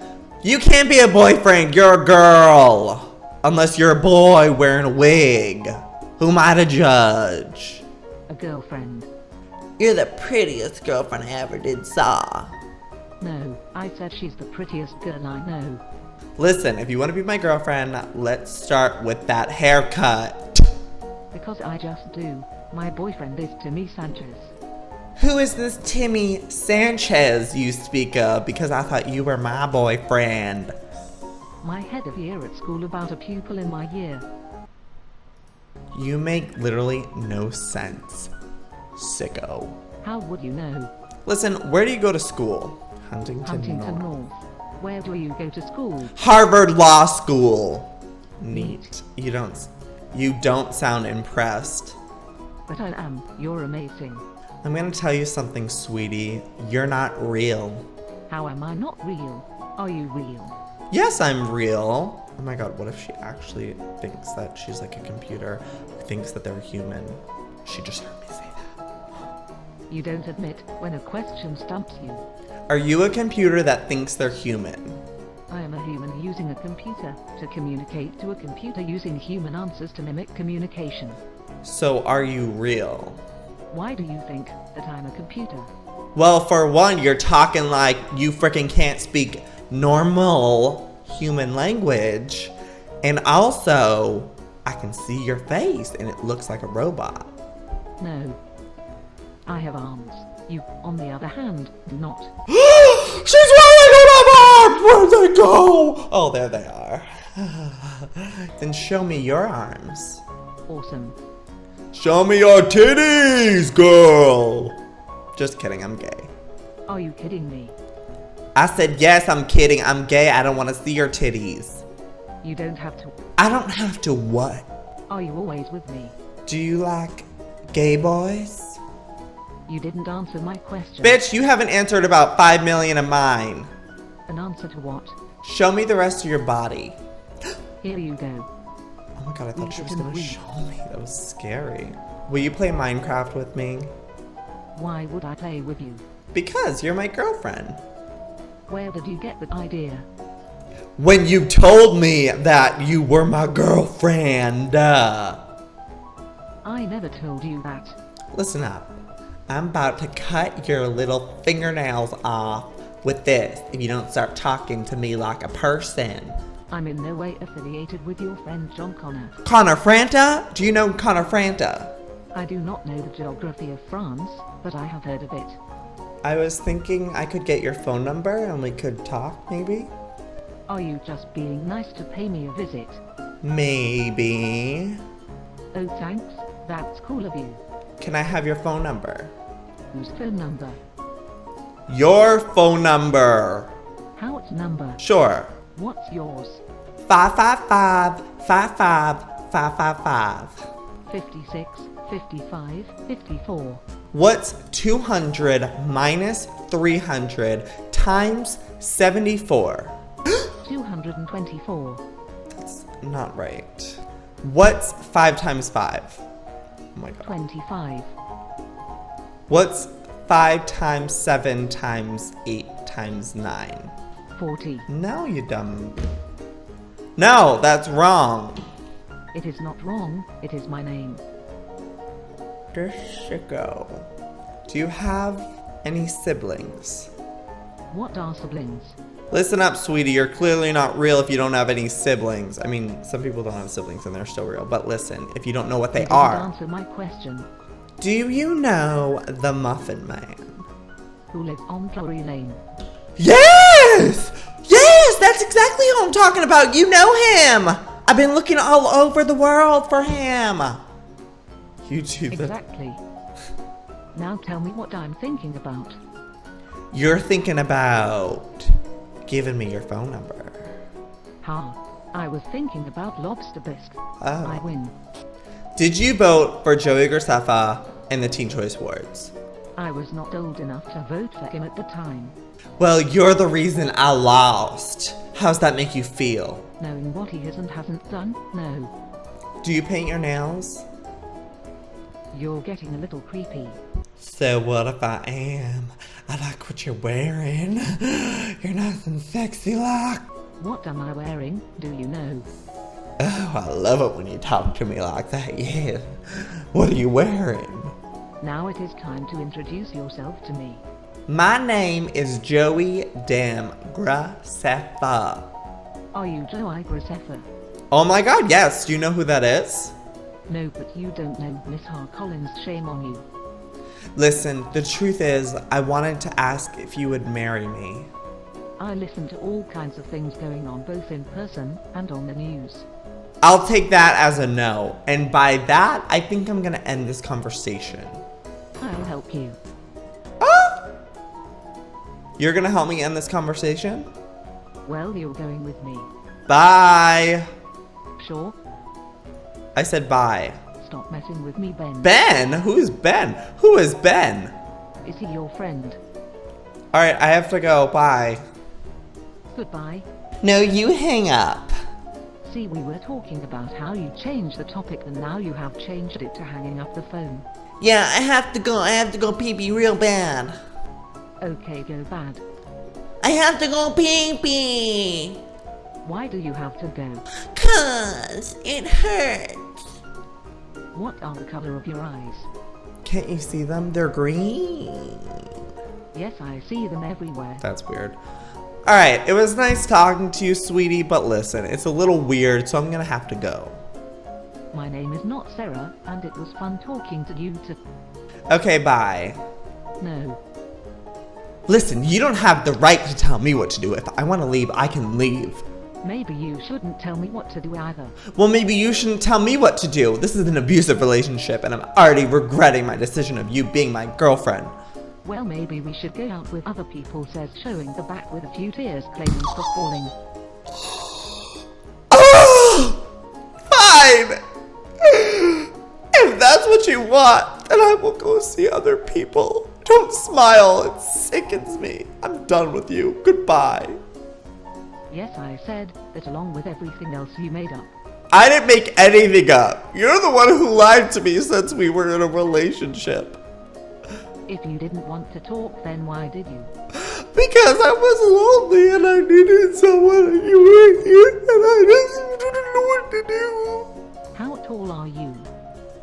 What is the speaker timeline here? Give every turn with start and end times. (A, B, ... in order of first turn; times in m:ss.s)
0:00.4-0:07.8 A
0:08.3-0:09.1 B
0:09.8-0:12.5 A
0:13.2-0:15.8 B
0:16.4-0:20.6 A
0:21.3-0:24.6 B
0:25.2-0:30.8 A
0:31.6-0:34.3 B
0:35.9-0:38.3 A
0:39.0-0:39.8 A
0:40.0-0:40.9 B
0:41.3-0:44.1 A
0:43.4-0:46.1 B
0:46.2-0:52.0 A
0:48.5-0:48.8 B
0:52.7-0:54.2 B
0:54.6-0:57.9 A
0:58.3-1:00.5 B
1:00.9-1:08.7 A
1:09.9-1:12.2 B
1:12.7-1:15.0 A
1:15.5-1:21.2 B
1:21.6-1:23.2 A
1:23.7-1:25.7 B
1:26.2-1:37.3 A
1:38.0-1:38.4 B
1:39.5-1:42.3 B
1:42.5-1:50.2 A
1:50.7-1:51.2 B
1:51.9-1:54.8 A
1:55.4-1:56.3 A
1:56.9-1:57.8 B
1:58.6-2:01.8 A
2:02.4-2:03.2 B
2:03.4-2:04.7 A
2:05.1-2:06.2 B
2:06.5-2:08.8 A
2:09.7-2:11.2 B
2:11.0-2:13.7 A
2:14.3-2:15.2 B
2:15.4-2:17.0 A
2:17.8-2:18.5 B
2:19.2-2:23.9 A
2:19.6-2:20.4 B
2:24.8-2:26.0 B
2:26.3-2:27.8 A
2:28.7-2:30.1 B
2:31.0-2:35.4 A
2:36.6-2:38.0 B
2:38.3-2:39.0 A
2:39.5-2:46.4 A
2:46.7-2:49.4 B
2:49.4-2:51.9 A
2:52.3-2:55.6 B
2:56.2-2:59.9 A
3:00.7-3:03.0 B
3:03.4-3:05.0 A
3:05.7-3:07.6 B
3:08.0-3:09.3 A
3:09.9-3:10.8 B
3:11.9-3:13.7 A
3:14.2-3:15.0 B
3:15.0-3:15.6 A
3:15.7-3:16.6 B
3:17.1-3:20.6 A
3:21.1-3:23.8 B
3:24.1-3:29.9 A
3:30.6-3:32.0 B
3:32.5-3:36.2 A
3:37.0-3:37.3 A
3:37.2-3:38.1 B
3:39.5-3:43.9 A
3:44.4-3:44.9 B
3:44.9-3:46.0 A
3:47.2-3:48.6 A
3:49.3-3:51.2 B
3:52.7-3:54.1 A
3:54.7-3:57.1 A
3:57.9-3:59.0 B
3:59.3-4:06.5 A
4:06.0-4:07.5 B
4:08.0-4:10.7 A
4:11.3-4:12.6 B
4:13.2-4:20.8 A
4:21.8-4:22.6 A
4:22.3-4:23.0 B
4:24.1-4:26.0 B
4:26.9-4:28.7 A
4:29.3-4:30.8 A
4:31.4-4:35.0 B
4:34.2-4:34.7 A
4:35.8-4:39.3 A
4:39.8-4:42.4 B
4:42.8-4:46.7 A
4:46.8-4:48.9 B
4:49.6-4:50.8 A
4:52.3-4:53.8 B
4:54.2-5:00.3 A
5:00.6-5:02.5 B
5:03.2-5:07.9 A
5:08.4-5:10.8 B
5:11.3-5:15.5 A
5:16.1-5:17.5 B
5:17.9-5:20.0 A
5:20.5-5:23.2 B
5:24.2-5:28.1 A
5:28.8-5:32.9 B
5:33.4-5:38.2 A
5:38.8-5:39.6 B
5:40.4-5:40.8 A
5:42.4-5:44.1 A
5:44.8-5:46.1 B
5:46.5-5:47.5 A
5:48.2-5:48.6 B
5:49.8-5:50.6 A
5:50.8-5:52.1 B
5:52.0-5:54.5 A
5:55.0-5:56.0 B
5:56.9-5:58.4 A
5:59.5-6:00.1 B
6:00.4-6:01.7 A
6:02.4-6:07.5 B
6:07.8-6:10.6 A
6:11.4-6:12.4 B
6:13.2-6:15.4 A
6:16.0-6:17.2 B
6:17.5-6:19.8 A
6:20.9-6:22.5 B
6:23.0-6:25.5 A
6:26.1-6:27.6 B
6:27.6-6:28.2 A
6:28.9-6:33.8 A
6:34.7-6:37.8 B
6:38.5-6:39.4 A
6:40.0-6:40.4 B
6:41.7-6:45.6 A
6:46.0-6:48.2 B
6:48.3-6:54.8 A
6:55.2-7:00.1 B
7:02.1-7:03.0 A
7:03.7-7:04.4 A
7:05.0-7:14.0 A
7:15.1-7:17.9 B
7:18.3-7:23.4 A
7:24.5-7:26.7 B
7:26.9-7:33.9 A
7:34.3-7:35.5 B